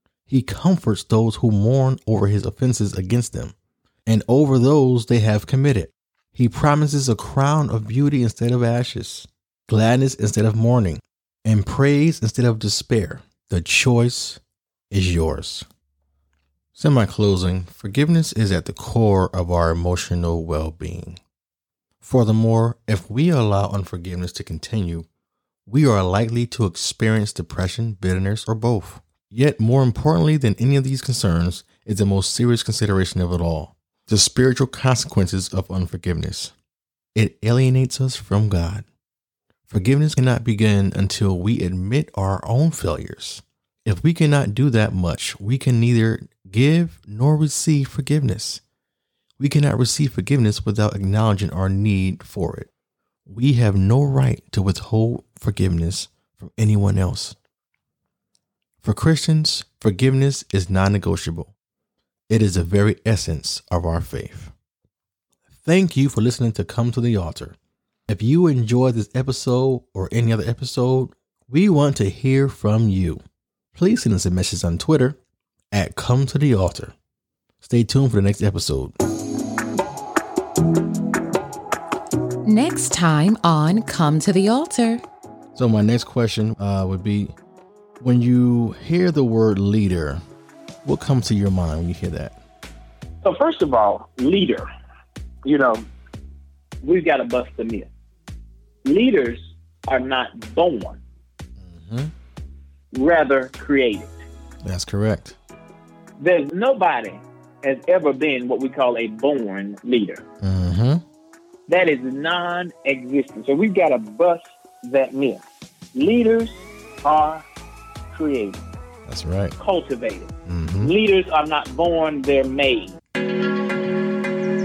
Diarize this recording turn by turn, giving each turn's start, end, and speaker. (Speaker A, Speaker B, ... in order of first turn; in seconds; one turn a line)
Speaker A: 0.3-3.5
Speaker A: 4.1-15.6
Speaker A: 16.8-21.2
Speaker A: 22.0-25.1
Speaker A: 25.7-36.5
Speaker A: 37.1-38.9
Speaker A: 39.7-48.6
Speaker A: 49.4-52.7
Speaker A: 53.2-57.4
Speaker A: 58.8-61.5
Speaker A: 62.3-64.5
Speaker A: 65.6-67.6
Speaker A: 68.1-73.2
Speaker A: 73.7-75.2
Speaker A: 75.7-76.9
Speaker A: 77.6-79.0
Speaker B: 82.5-85.0
Speaker A: 85.5-87.3
Speaker A: 88.0-90.2
Speaker A: 90.8-92.4
Speaker C: 93.2-94.6
Speaker C: 95.4-95.9
Speaker C: 96.8-97.9
Speaker C: 98.8-101.0
Speaker A: 101.6-102.1
Speaker C: 102.9-104.2
Speaker A: 104.6-105.4
Speaker C: 106.2-110.2
Speaker A: 110.4-111.0
Speaker C: 111.7-115.4
Speaker C: 116.0-117.4
Speaker C: 118.1-118.6
Speaker A: 119.1-119.6
Speaker C: 119.6-123.0
Speaker A: 120.5-120.9